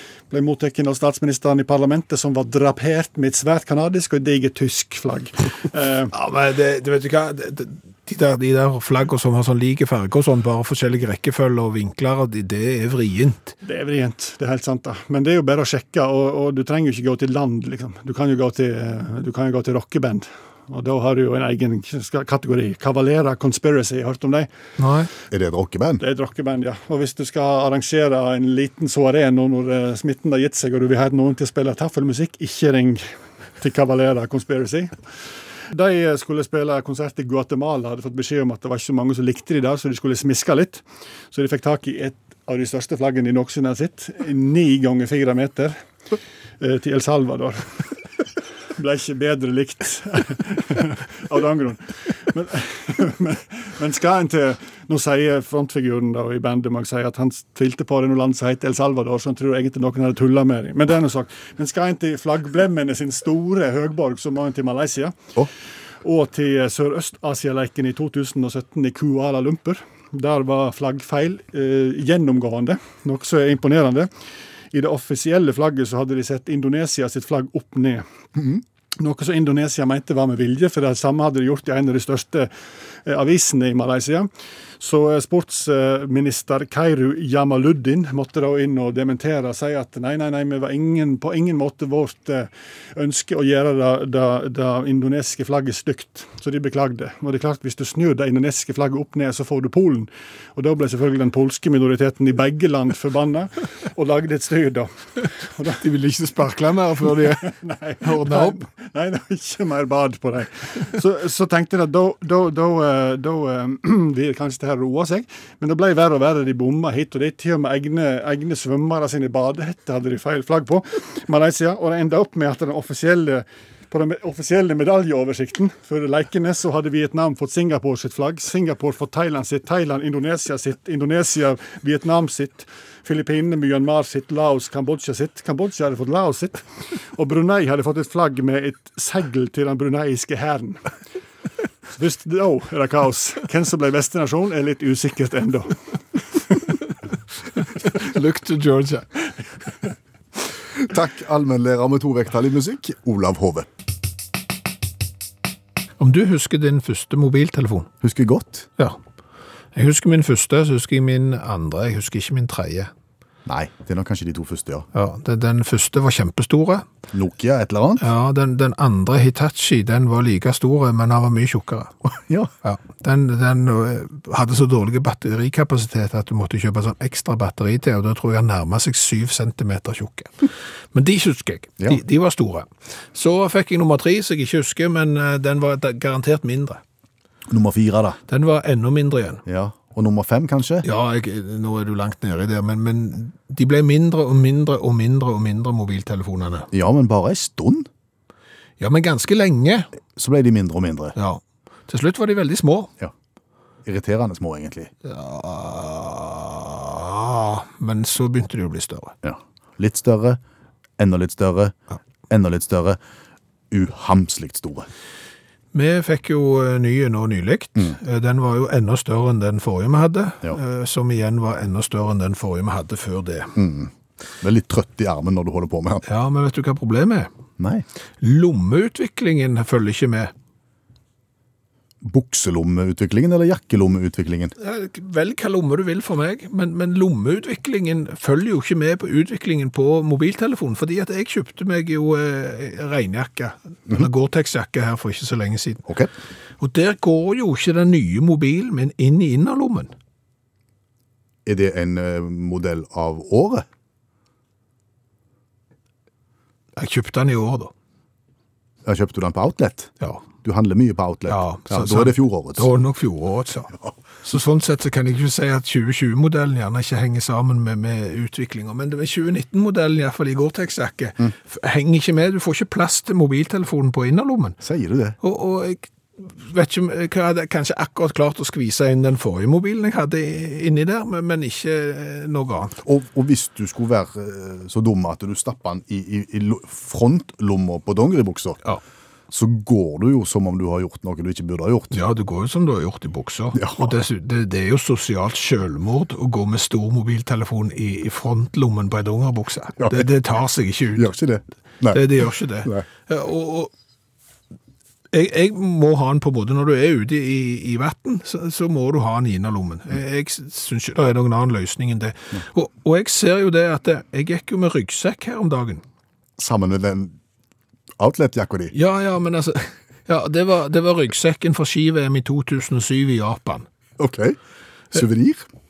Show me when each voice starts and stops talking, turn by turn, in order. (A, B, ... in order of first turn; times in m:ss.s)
0:00.3-0:06.1 A
0:06.1-0:13.6 B
0:13.6-0:24.5 A
0:24.8-0:25.1 B
0:25.3-0:26.0 C
0:26.0-0:33.0 A
0:33.6-0:35.0 A
0:35.7-0:45.8 A
0:46.6-0:47.7 A
0:48.8-1:05.2 A
1:06.0-1:14.1 A
1:14.7-1:18.0 A
1:18.4-1:18.6 C
1:19.0-1:22.5 A
1:23.0-1:24.3 A
1:24.8-1:44.9 A
1:45.4-1:45.8 A
1:45.7-1:48.6 B
1:47.4-2:20.9 A
2:21.9-2:25.8 A
2:27.6-2:29.2 B
2:30.8-2:33.7 C
2:36.0-2:37.9 B
2:38.0-2:38.7 C
2:39.7-2:42.9 B
2:43.4-2:44.9 C
2:44.9-2:46.9 B
2:47.1-2:48.1 C
2:48.0-2:52.0 B
2:52.0-2:52.5 C
2:52.6-3:06.8 B
3:07.5-3:08.2 C
3:08.3-3:09.4 B
3:09.4-3:10.8 C
3:10.8-3:16.7 B
3:16.7-3:17.9 C
3:18.8-3:19.9 B
3:20.2-3:21.2 C
3:21.1-3:22.9 B
3:23.8-3:24.9 C
3:25.0-3:29.1 B
3:29.2-3:30.4 C
3:31.0-3:31.8 C
3:32.3-3:33.0 C
3:33.7-3:34.9 C
3:35.7-3:43.6 B
3:43.6-3:46.0 C
3:46.0-3:47.3 B
3:47.6-3:47.8 C
3:48.2-3:50.3 B
3:52.0-3:54.5 C
3:54.6-4:05.8 B
4:06.6-4:09.9 B
4:11.4-4:13.6 C
4:16.8-4:17.7 B
4:18.8-4:22.7 C
4:21.3-4:34.6 B
4:34.6-4:35.2 C
4:35.2-4:42.8 B
4:42.8-4:48.6 C
4:49.3-4:51.9 C
4:51.9-5:01.1 B
4:53.5-4:53.9 C
4:59.8-5:00.0 C
5:01.0-5:02.8 C
5:01.9-5:03.7 B
5:05.1-5:15.8 B
5:16.4-5:17.2 C
5:18.0-5:18.7 C
5:18.7-5:23.7 B
5:24.0-5:24.4 C
5:24.9-5:25.4 C